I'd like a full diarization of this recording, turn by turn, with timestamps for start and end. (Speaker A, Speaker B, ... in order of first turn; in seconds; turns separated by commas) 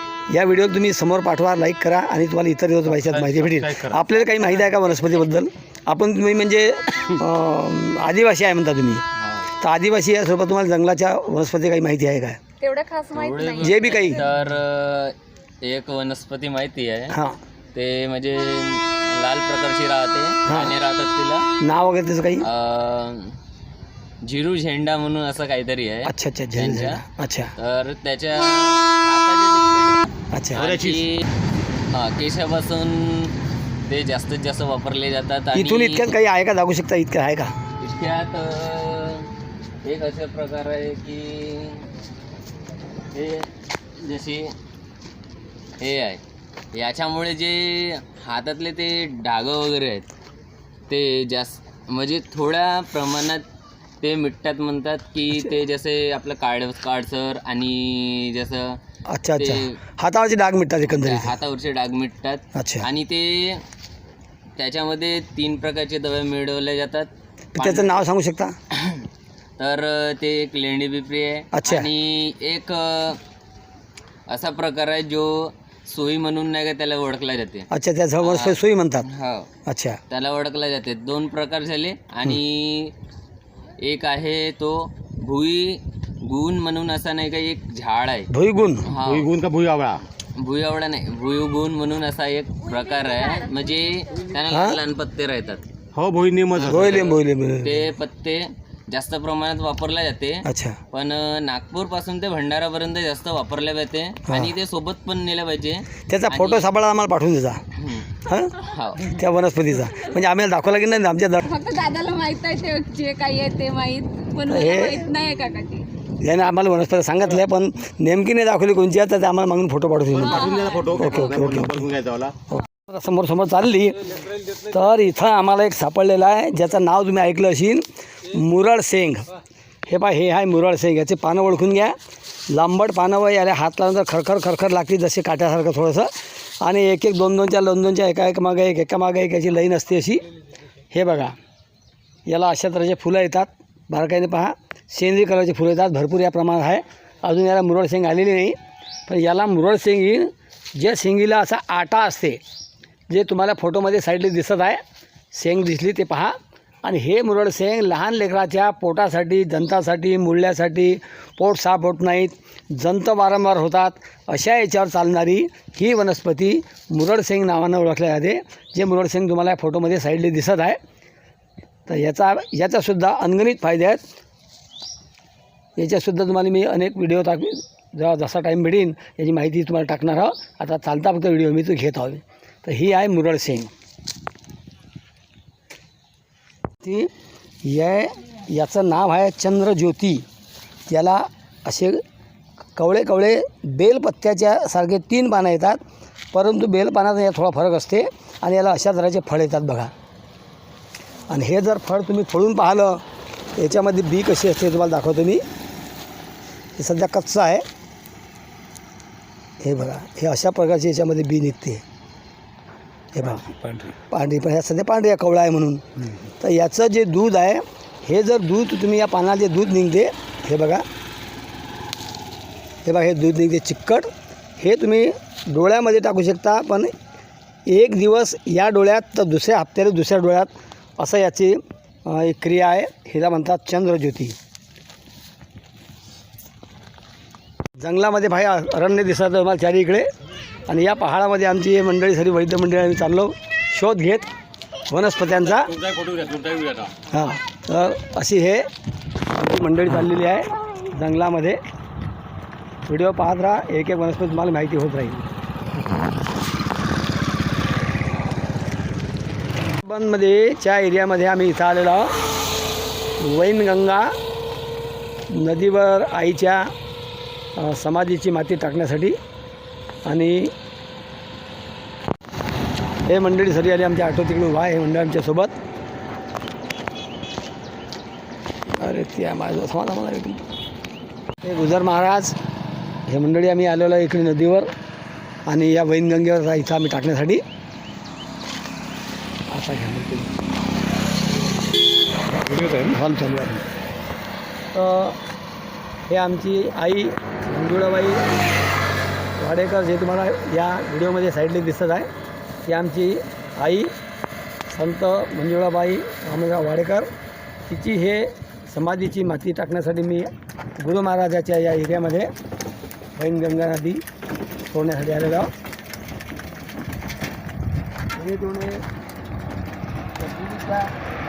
Speaker A: 0.3-9.0, Speaker B: 2.9-4.1, Speaker C: 9.2-9.5, Speaker A: 9.6-12.4, Speaker D: 12.6-14.2, Speaker C: 13.1-17.2, Speaker A: 13.6-14.2, Speaker A: 17.1-17.4, Speaker C: 17.7-21.5, Speaker A: 20.5-20.7, Speaker A: 21.6-22.5, Speaker C: 22.4-23.4, Speaker C: 24.2-27.0, Speaker A: 26.1-27.5, Speaker C: 27.6-31.2, Speaker A: 30.3-30.7, Speaker B: 30.6-31.1, Speaker C: 31.9-33.3, Speaker C: 33.9-36.2, Speaker A: 35.5-37.5, Speaker C: 37.8-39.3, Speaker C: 39.8-41.9, Speaker C: 43.1-43.5, Speaker C: 44.0-44.5, Speaker C: 45.8-46.2, Speaker C: 46.7-50.1, Speaker C: 50.9-53.5, Speaker C: 54.0-58.8, Speaker A: 59.1-61.3, Speaker C: 59.4-59.8, Speaker C: 60.9-63.6, Speaker A: 62.5-62.9, Speaker C: 64.6-68.0, Speaker A: 67.5-68.5, Speaker C: 68.7-69.1, Speaker C: 69.6-73.2, Speaker A: 71.5-71.9, Speaker C: 74.3-77.7, Speaker A: 77.7-79.1, Speaker C: 78.2-79.5, Speaker A: 79.7-80.0, Speaker C: 80.1-82.9, Speaker C: 83.8-88.3, Speaker A: 88.3-88.9, Speaker C: 88.8-89.3, Speaker B: 88.9-90.0, Speaker C: 90.4-95.6, Speaker A: 94.5-94.8, Speaker B: 95.9-97.2, Speaker A: 96.6-97.9, Speaker C: 96.7-106.7, Speaker A: 100.5-100.8, Speaker A: 104.3-104.5, Speaker A: 106.1-107.6, Speaker C: 107.8-108.1, Speaker A: 108.2-108.6, Speaker C: 108.7-109.1, Speaker A: 109.1-111.5, Speaker D: 111.4-115.9, Speaker A: 114.5-115.0, Speaker A: 116.2-121.9, Speaker B: 120.1-122.4, Speaker D: 120.4-120.9, Speaker A: 122.5-124.0, Speaker A: 124.5-129.3, Speaker A: 129.9-132.0, Speaker A: 132.5-140.2, Speaker A: 140.9-141.4, Speaker A: 142.3-152.4, Speaker A: 153.1-154.8, Speaker A: 155.3-170.8, Speaker A: 171.9-174.0, Speaker A: 175.8-183.7, Speaker A: 186.8-187.1, Speaker A: 187.6-190.2, Speaker A: 190.9-192.0, Speaker A: 192.8-195.8, Speaker A: 196.3-199.9, Speaker A: 201.3-203.0, Speaker A: 203.6-205.4, Speaker A: 206.8-207.6, Speaker A: 209.6-211.8, Speaker A: 213.1-220.8, Speaker A: 222.8-226.9, Speaker A: 227.7-234.4, Speaker A: 237.8-240.1, Speaker A: 240.7-244.3, Speaker A: 244.9-245.7, Speaker B: 245.4-246.9, Speaker A: 247.1-248.7, Speaker A: 249.3-251.6, Speaker A: 252.9-255.2, Speaker A: 259.8-262.1, Speaker A: 263.2-264.1, Speaker A: 265.3-266.7, Speaker A: 267.6-269.2, Speaker A: 270.1-270.5, Speaker A: 273.1-275.5, Speaker A: 278.8-280.4, Speaker A: 281.4-282.4, Speaker A: 283.1-284.7, Speaker A: 285.5-287.4, Speaker A: 289.5-290.3, Speaker A: 292.5-293.6, Speaker A: 294.7-295.2, Speaker A: 296.1-298.2, Speaker A: 299.4-302.1, Speaker A: 302.7-303.9, Speaker A: 304.7-307.1, Speaker A: 307.7-312.3, Speaker A: 313.2-314.0, Speaker A: 314.7-315.5, Speaker A: 318.1-318.9, Speaker A: 320.2-320.9